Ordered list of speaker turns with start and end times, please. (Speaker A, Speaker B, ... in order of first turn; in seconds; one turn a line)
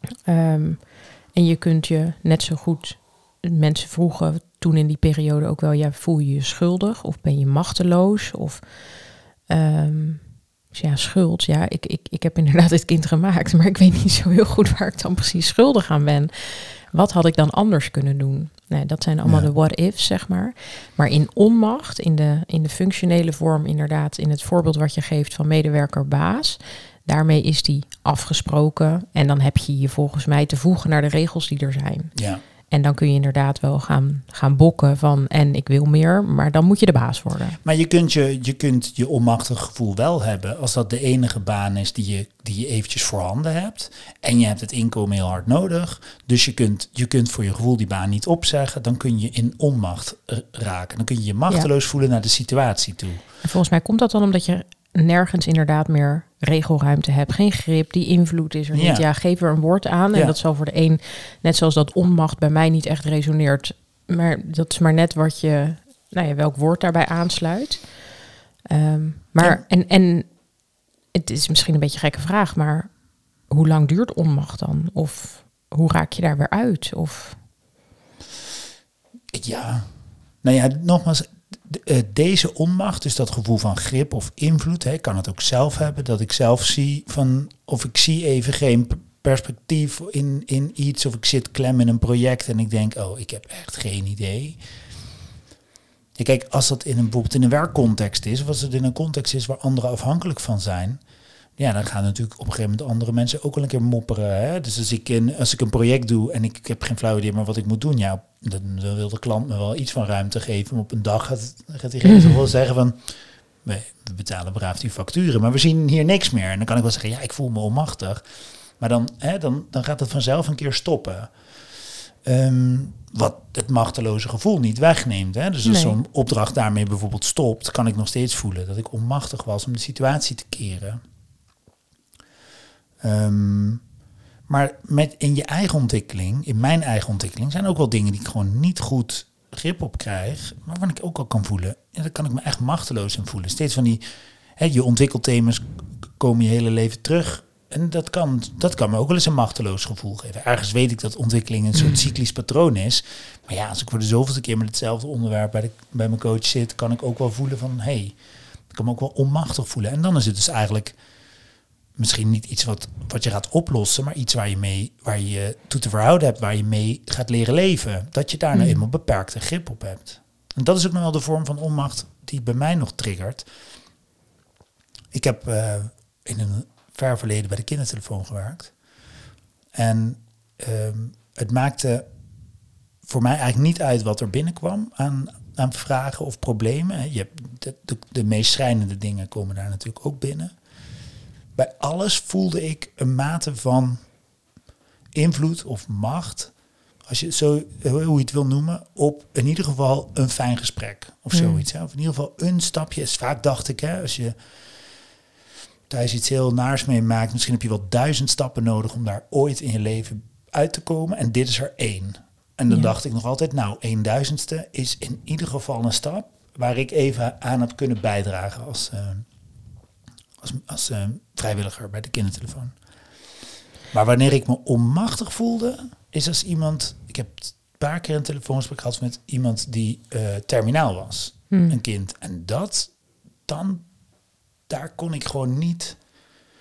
Speaker A: 0.2-32.1
Speaker B: 19.2-19.5
Speaker B: 32.1-32.4
Speaker A: 32.6-37.6
Speaker B: 37.6-53.2
Speaker A: 53.4-77.5
Speaker B: 58.7-59.1
Speaker B: 79.3-79.9
Speaker B: 80.4-94.6
Speaker B: 96.2-101.0
Speaker B: 101.6-118.2
Speaker B: 118.8-131.0
Speaker A: 125.6-126.0
Speaker B: 133.0-133.9
Speaker B: 134.5-144.0
Speaker B: 144.6-161.0
Speaker A: 151.8-152.0
Speaker B: 161.9-173.4
Speaker A: 168.5-168.8
Speaker B: 175.1-178.7
Speaker B: 179.7-182.1
Speaker B: 183.0-190.6
Speaker B: 191.5-194.2
Speaker B: 195.1-204.3
Speaker A: 201.3-201.7
Speaker B: 205.9-219.3
Speaker B: 220.4-222.8
Speaker B: 223.9-233.9
Speaker A: 231.5-231.7
Speaker B: 234.7-236.1